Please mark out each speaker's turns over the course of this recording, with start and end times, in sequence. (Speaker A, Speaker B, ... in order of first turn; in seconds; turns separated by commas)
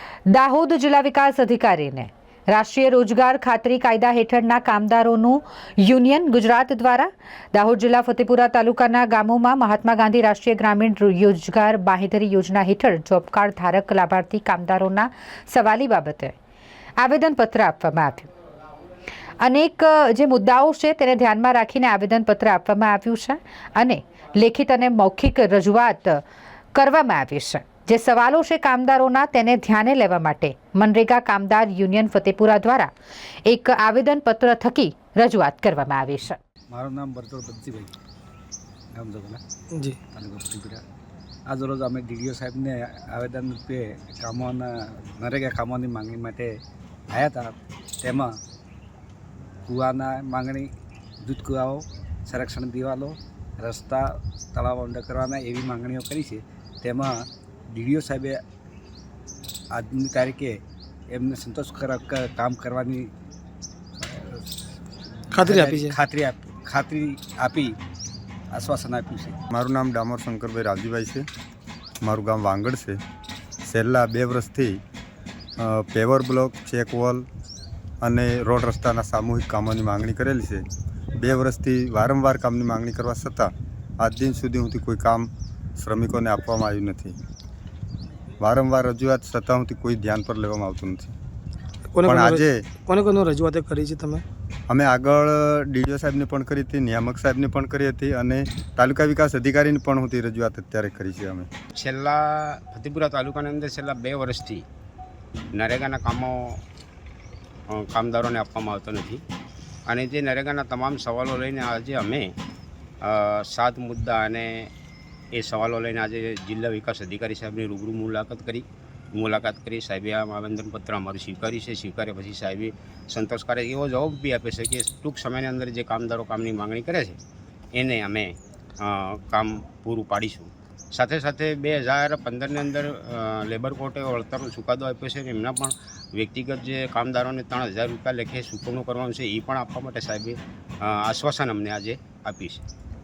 Speaker A: 0.3-16.4, Speaker A: 17.0-18.3, Speaker A: 19.4-26.2, Speaker A: 26.7-32.9, Speaker A: 33.5-36.4, Speaker B: 36.7-38.0, Speaker B: 38.9-39.4, Speaker C: 39.7-40.0, Speaker B: 40.1-40.8, Speaker B: 41.5-46.6, Speaker B: 47.1-48.4, Speaker B: 49.7-50.7, Speaker B: 51.2-58.4, Speaker B: 59.7-63.1, Speaker B: 64.0-64.8, Speaker C: 65.3-66.0, Speaker B: 65.3-67.8, Speaker B: 68.5-69.4, Speaker D: 69.5-71.2, Speaker D: 72.0-73.0, Speaker D: 73.7-74.8, Speaker D: 75.6-77.3, Speaker D: 78.0-80.7, Speaker D: 81.2-87.2, Speaker D: 88.4-91.1, Speaker C: 91.9-94.2, Speaker D: 92.1-92.6, Speaker D: 94.7-101.5, Speaker E: 101.7-104.6, Speaker E: 105.5-106.6, Speaker E: 107.7-109.2, Speaker E: 109.9-112.3, Speaker E: 113.0-114.7, Speaker E: 115.3-127.2, Speaker E: 127.8-142.6